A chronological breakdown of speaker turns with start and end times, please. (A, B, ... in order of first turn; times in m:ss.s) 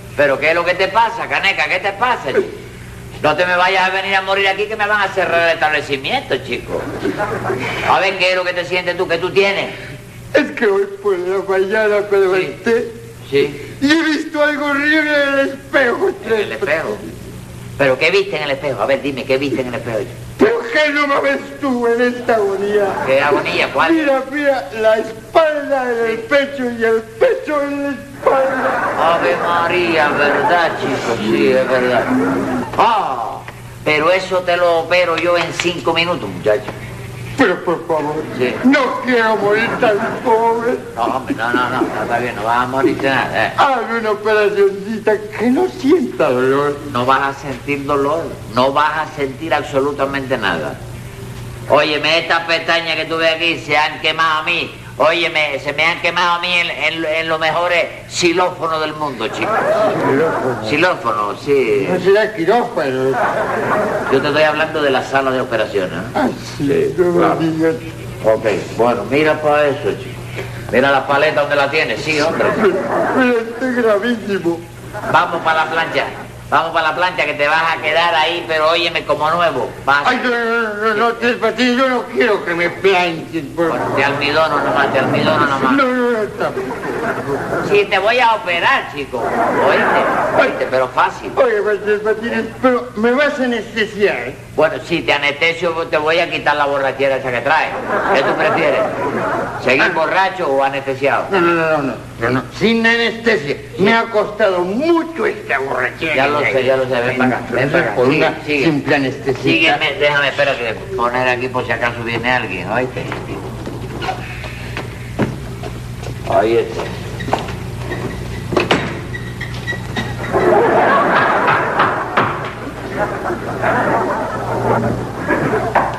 0:00.2-0:02.5 A
0:03.2-0:06.8 A
0:07.8-0:09.8 A
0:10.3-0:12.9 B
0:12.3-0:12.6 A
0:13.3-0:13.6 A
0:13.6-0:17.0 B
0:16.2-0:17.0 A
0:17.8-0:20.2 A
0:20.4-0:23.0 B
0:23.0-0:24.1 A
0:23.7-0:28.9 B
0:29.0-0:32.1 A
0:32.8-0:36.7 A
0:37.4-0:40.9 B
0:38.3-0:38.6 A
0:41.0-0:43.6 A
0:43.6-0:46.8 B
0:46.9-0:50.8 A
0:51.7-0:59.9 A
0:59.8-1:00.7 B
1:00.6-1:02.1 A
1:01.8-1:03.2 B
1:04.1-1:07.4 A
1:06.2-1:07.8 B
1:08.2-1:10.1 A
1:10.7-1:12.7 A
1:12.5-1:14.6 B
1:15.1-1:20.3 A
1:20.0-1:23.8 B
1:20.9-1:21.3 A
1:23.7-1:25.8 A
1:25.5-1:26.8 B
1:27.6-1:31.4 A
1:31.4-1:34.4 B
1:34.6-1:38.9 A
1:39.6-1:41.5 A
1:41.3-1:49.8 B
1:46.1-1:48.7 A
1:49.4-1:53.4 A
1:56.3-1:56.9 A